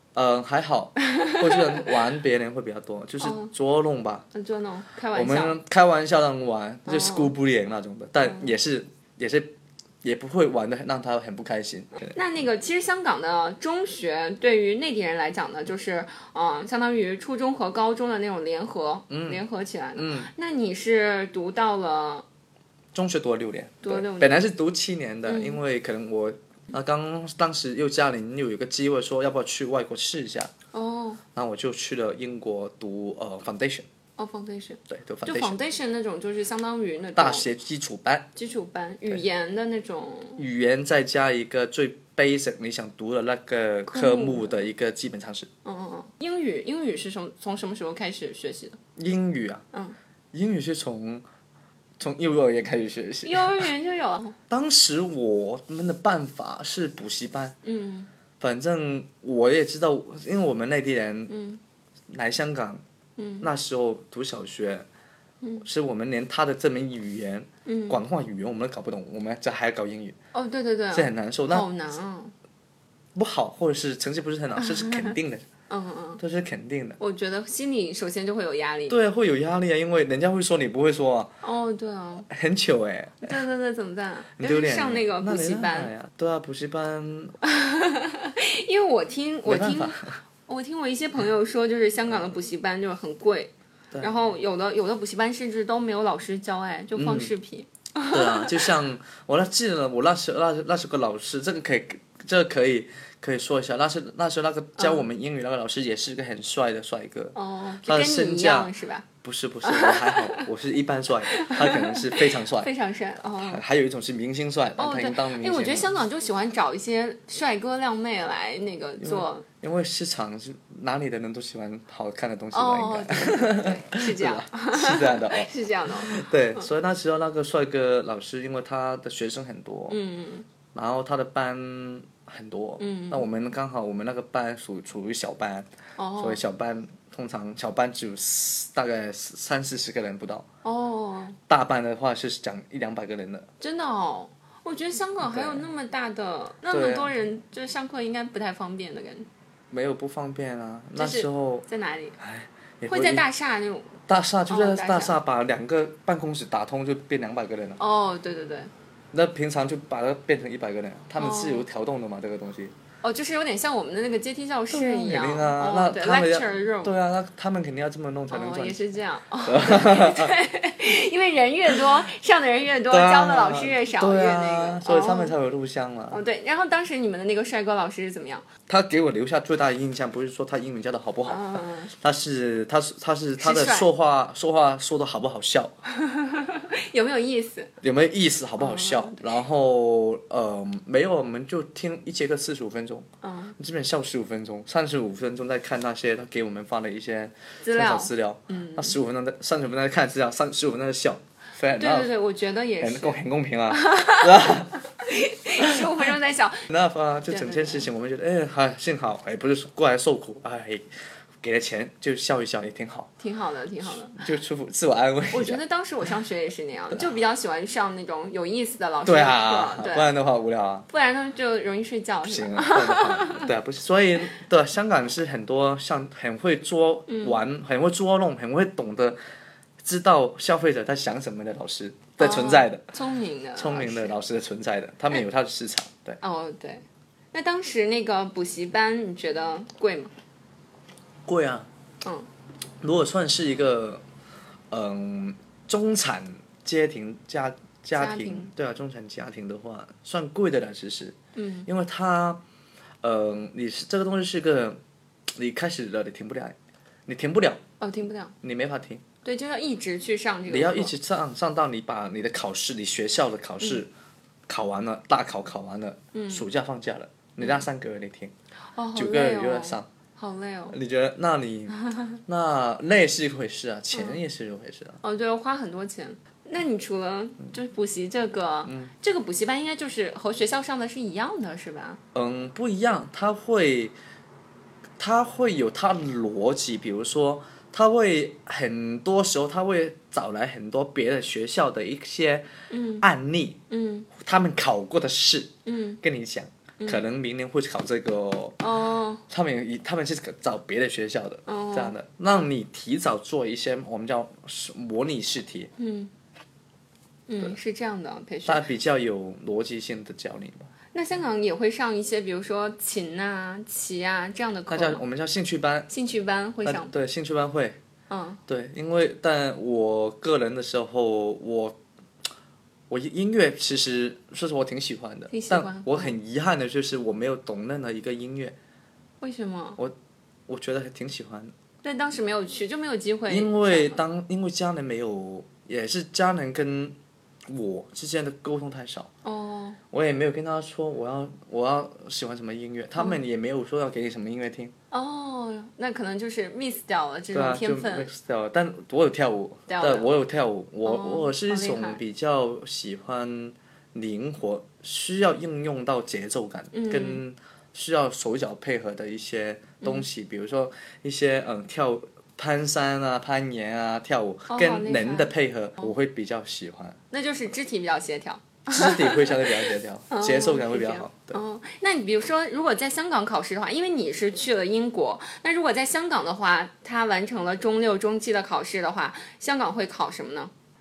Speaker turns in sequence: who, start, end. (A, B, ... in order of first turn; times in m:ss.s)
0:00.2-0:04.3 A
0:01.0-0:02.0 B
0:03.2-0:03.5 B
0:04.3-0:05.6 B
0:05.1-0:12.2 A
0:06.9-0:07.3 B
0:08.2-0:08.5 B
0:12.1-0:22.3 B
0:19.1-0:19.4 A
0:20.0-0:20.3 A
0:22.9-0:30.5 A
0:23.8-0:24.4 B
0:25.3-0:25.6 B
0:30.7-0:31.2 B
0:31.3-0:33.9 A
0:34.2-0:37.5 B
0:34.9-0:35.6 A
0:37.2-0:38.3 A
0:38.4-0:40.4 B
0:40.4-0:45.5 A
0:43.9-0:44.7 B
0:45.6-0:48.8 B
0:49.0-0:49.6 A
0:50.3-0:51.2 A
0:52.0-0:53.7 A
0:53.2-0:54.4 B
0:54.5-0:57.6 A
0:57.6-0:58.1 B
0:58.4-1:01.4 A
1:01.3-1:01.6 B
1:02.1-1:02.8 A
1:03.2-1:03.5 B
1:03.4-1:04.9 A
1:05.4-1:05.7 B
1:05.6-1:10.2 A
1:07.7-1:08.0 B
1:10.3-1:12.3 B
1:10.9-1:11.7 A
1:13.2-1:15.5 A
1:14.6-1:15.2 B
1:15.7-1:16.2 B
1:16.2-1:17.0 A
1:17.0-1:19.0 B
1:18.9-1:21.3 A
1:21.4-1:22.3 B
1:22.3-1:23.4 A
1:23.2-1:25.9 B
1:24.4-1:27.4 A
1:27.4-1:38.7 B
1:29.4-1:30.2 A
1:33.9-1:34.2 A
1:37.0-1:37.3 A
1:38.1-1:52.7 A
1:44.8-1:45.1 B
1:47.4-1:49.1 B
1:49.6-1:50.5 B
1:51.3-1:53.6 B
1:53.4-1:56.0 A
1:54.8-1:59.5 B
1:59.0-2:10.0 A
2:02.5-2:06.7 B
2:09.9-2:10.5 B
2:10.7-2:20.5 A
2:12.8-2:13.3 B
2:16.0-2:16.4 B
2:20.6-2:21.4 B
2:21.5-2:23.5 A
2:23.6-2:29.3 B
2:25.2-2:25.7 A
2:26.7-2:27.2 A
2:29.7-2:31.7 A
2:31.0-2:32.2 B
2:32.2-2:33.2 A
2:32.9-2:34.0 B
2:34.1-2:37.8 A
2:34.5-2:35.2 B
2:37.8-2:38.7 B
2:39.1-2:42.7 A
2:41.2-2:41.7 B
2:43.0-2:46.9 B
2:44.7-2:48.8 A
2:48.3-2:55.3 B
2:49.4-2:50.4 A
2:52.9-2:56.2 A
2:56.1-2:58.4 B
2:58.7-3:05.7 A
3:01.3-3:01.9 B
3:03.4-3:03.9 B
3:06.0-3:07.7 B
3:07.8-3:22.1 A
3:08.6-3:09.3 B
3:13.2-3:13.6 B
3:17.6-3:19.0 B
3:21.8-3:26.7 B
3:22.8-3:24.8 A
3:25.6-3:26.0 A
3:26.7-3:30.9 A
3:27.3-3:27.9 B
3:31.4-3:33.1 A
3:33.2-3:34.2 B
3:33.8-3:35.6 A
3:35.3-3:40.1 B
3:36.9-3:37.2 A
3:39.0-3:40.9 A
3:40.9-3:43.5 B
3:42.2-3:49.2 A
3:47.1-3:47.4 B
3:49.8-3:52.9 A
3:52.2-3:54.2 B
3:53.6-3:56.2 A
3:56.2-4:00.1 B
4:01.3-4:01.7 A
4:02.8-4:04.0 A
4:04.7-4:12.4 A
4:07.9-4:08.5 B
4:11.4-4:11.7 B
4:13.0-4:14.8 A
4:15.3-4:17.6 A
4:17.8-4:18.3 B
4:18.4-4:19.0 A
4:19.2-4:20.9 B
4:20.5-4:23.9 A
4:24.5-4:28.3 A
4:26.1-4:26.5 B
4:28.8-4:30.8 B
4:29.0-4:29.9 A
4:30.7-4:35.0 A
4:33.9-4:34.2 B
4:35.0-4:42.0 B
4:38.6-4:38.9 A
4:42.1-4:44.0 A
4:45.0-4:52.5 A
4:52.7-4:53.1 B
4:53.0-4:53.6 A
4:53.7-4:54.1 B
4:54.1-4:58.6 A
4:55.7-4:56.0 B
4:56.8-4:57.1 B
4:58.6-4:59.2 B
4:59.3-5:05.7 A
5:01.5-5:01.9 B
5:05.8-5:06.1 B
5:07.3-5:08.6 B
5:08.4-5:10.7 A
5:10.9-5:15.0 B
5:14.7-5:15.9 A
5:15.9-5:16.9 B
5:16.6-5:17.8 A
5:18.1-5:18.4 B
5:18.5-5:21.8 A
5:22.9-5:28.6 A
5:25.3-5:26.1 B
5:29.2-5:29.8 B
5:30.5-5:31.5 A
5:31.8-5:34.0 B
5:33.3-5:39.1 A
5:39.2-5:39.8 B
5:39.9-5:44.7 A
5:44.9-5:48.1 B
5:47.3-6:07.0 A
5:49.7-5:50.1 B
5:50.8-5:52.0 B
5:56.7-5:57.2 B
6:04.5-6:05.3 B
6:07.1-6:20.5 B
6:08.7-6:11.4 A